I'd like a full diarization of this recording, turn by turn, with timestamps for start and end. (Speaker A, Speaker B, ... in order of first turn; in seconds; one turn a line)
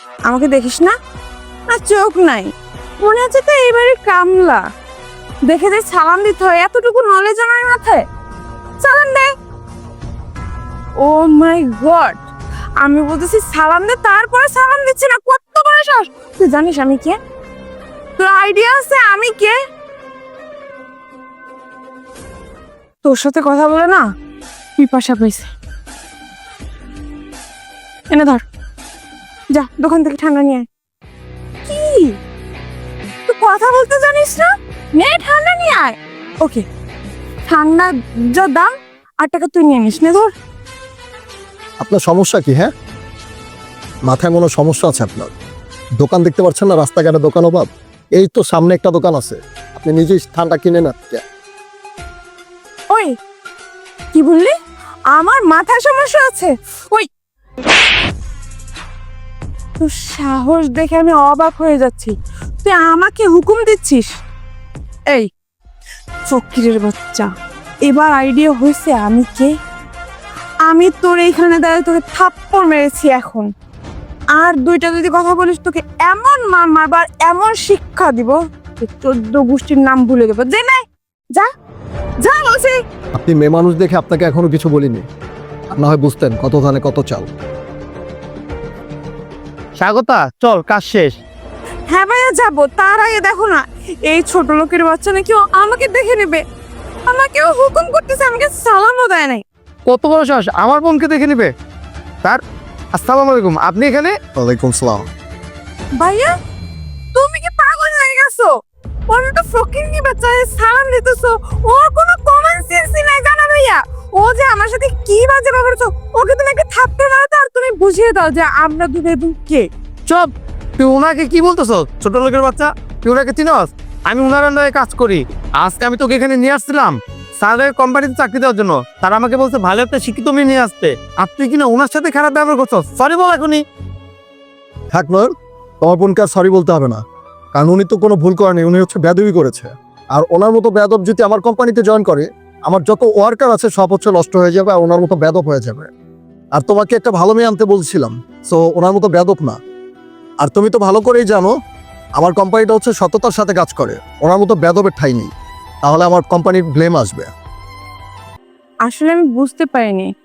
Speaker A: 0.3-0.9
Speaker A: 1.7-4.7
Speaker A: 5.5-8.1
Speaker A: 8.8-9.3
Speaker A: 11.0-12.2
Speaker A: 12.8-17.2
Speaker A: 18.2-19.6
Speaker A: 23.0-24.1
Speaker A: 24.8-25.5
Speaker A: 28.1-28.4
Speaker A: 29.5-30.7
Speaker A: 31.7-32.2
Speaker A: 33.3-36.6
Speaker A: 37.5-40.3
Speaker B: 41.8-42.7
Speaker B: 44.1-45.3
Speaker B: 46.0-51.2
Speaker A: 54.1-54.5
Speaker A: 55.1-57.1
Speaker A: 59.8-64.1
Speaker A: 66.3-67.3
Speaker A: 67.8-69.5
Speaker A: 70.7-73.5
Speaker A: 74.3-80.8
Speaker A: 82.2-82.8
Speaker B: 83.2-85.1
Speaker B: 85.7-87.3
Speaker C: 89.8-91.2
Speaker A: 91.9-96.4
Speaker A: 97.1-99.4
Speaker C: 99.9-101.5
Speaker C: 102.9-104.2
Speaker B: 104.3-105.1
Speaker A: 106.0-106.3
Speaker A: 107.1-108.5
Speaker A: 109.1-119.7
Speaker C: 120.1-133.6
Speaker B: 134.9-135.3
Speaker B: 135.8-137.0
Speaker B: 137.6-145.9
Speaker B: 146.6-149.6
Speaker B: 150.4-151.5
Speaker B: 152.2-155.3
Speaker B: 155.8-157.3
Speaker A: 158.8-160.1